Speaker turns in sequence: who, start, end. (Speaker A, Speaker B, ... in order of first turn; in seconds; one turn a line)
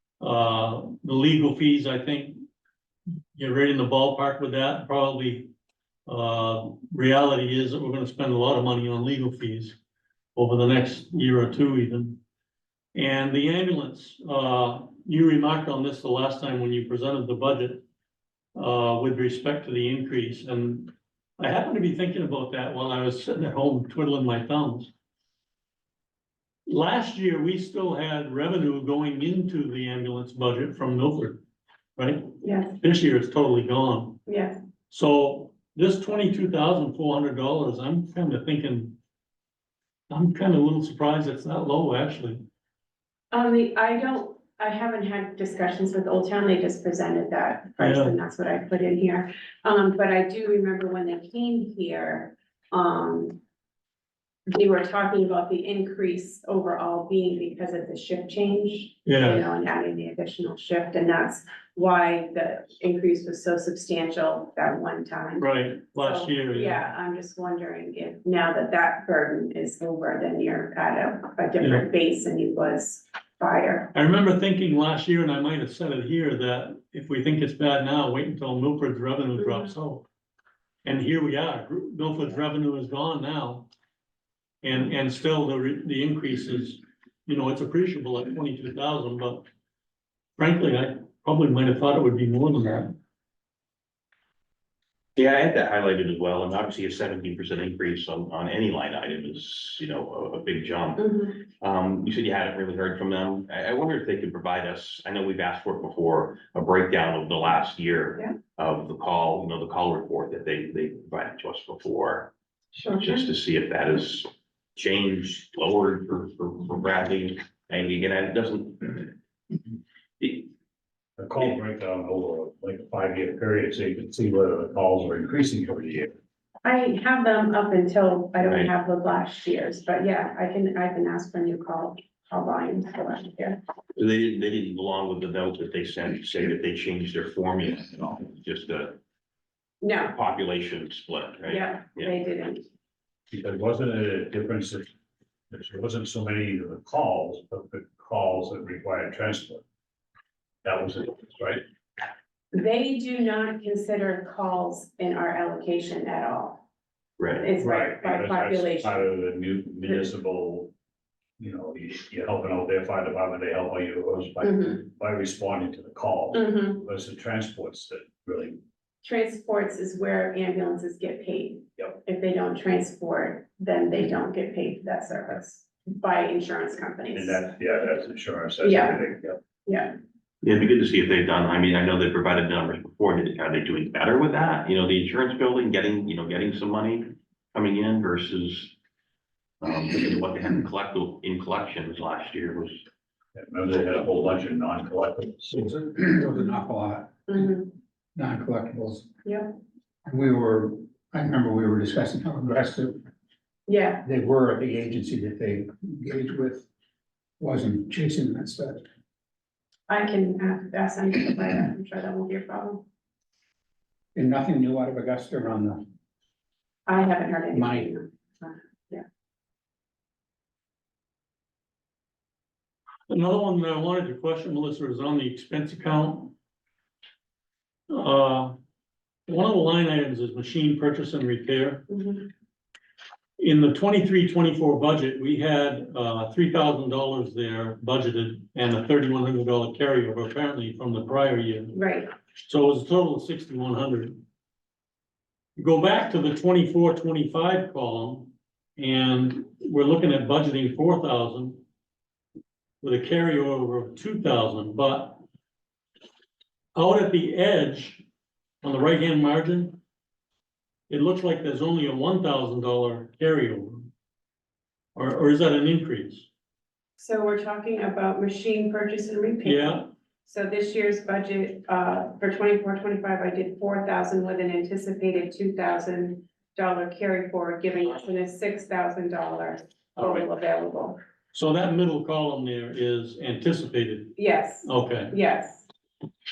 Speaker A: 0.2-2.4
Speaker A: 3.3-5.5
Speaker A: 6.0-9.8
Speaker A: 10.3-12.2
Speaker A: 12.9-17.8
Speaker A: 18.5-24.9
Speaker A: 26.6-31.4
Speaker A: 32.0-34.2
Speaker B: 32.4-32.8
Speaker B: 34.3-34.6
Speaker A: 34.9-39.0
Speaker A: 40.1-42.4
Speaker B: 43.3-53.4
Speaker A: 47.8-48.2
Speaker B: 54.5-73.9
Speaker A: 59.0-59.4
Speaker A: 65.4-66.8
Speaker A: 71.6-71.8
Speaker A: 73.9-80.0
Speaker B: 79.4-79.7
Speaker A: 80.8-83.7
Speaker A: 84.6-89.4
Speaker A: 90.4-92.9
Speaker C: 95.2-112.3
Speaker B: 101.0-101.4
Speaker B: 112.7-113.3
Speaker C: 113.0-119.1
Speaker C: 120.2-120.5
Speaker D: 121.2-126.2
Speaker B: 126.6-133.6
Speaker C: 128.4-128.7
Speaker C: 133.9-139.0
Speaker B: 139.8-140.1
Speaker C: 140.1-142.1
Speaker B: 141.4-142.6
Speaker D: 143.3-144.9
Speaker D: 145.5-149.6
Speaker D: 150.6-151.6
Speaker B: 152.5-156.6
Speaker C: 157.2-157.5
Speaker B: 157.4-159.1
Speaker D: 157.6-160.7
Speaker D: 161.4-168.6
Speaker B: 164.4-164.8
Speaker B: 166.3-166.8
Speaker B: 169.0-177.4
Speaker D: 177.1-179.4
Speaker B: 178.6-179.0
Speaker B: 179.6-179.9
Speaker C: 180.4-188.7
Speaker C: 189.6-192.8
Speaker D: 193.3-195.6
Speaker E: 195.5-199.1
Speaker B: 197.3-197.6
Speaker B: 199.2-199.5
Speaker E: 200.1-203.0
Speaker B: 203.7-204.0
Speaker E: 204.0-206.7
Speaker E: 207.4-208.8
Speaker B: 209.9-212.8
Speaker E: 214.1-215.8
Speaker B: 216.9-219.0
Speaker E: 217.5-217.9
Speaker A: 223.1-226.3
Speaker A: 227.9-228.5
Speaker A: 229.3-231.9
Speaker B: 231.9-232.3
Speaker A: 233.4-241.8
Speaker B: 241.7-242.1
Speaker A: 242.4-244.2
Speaker A: 245.6-251.6
Speaker A: 252.8-255.2
Speaker A: 256.7-258.0
Speaker A: 258.6-259.8
Speaker A: 260.9-263.9
Speaker A: 264.9-266.3
Speaker B: 267.0-281.0
Speaker A: 269.4-269.9
Speaker A: 280.0-280.2
Speaker A: 281.3-285.1
Speaker B: 284.1-285.7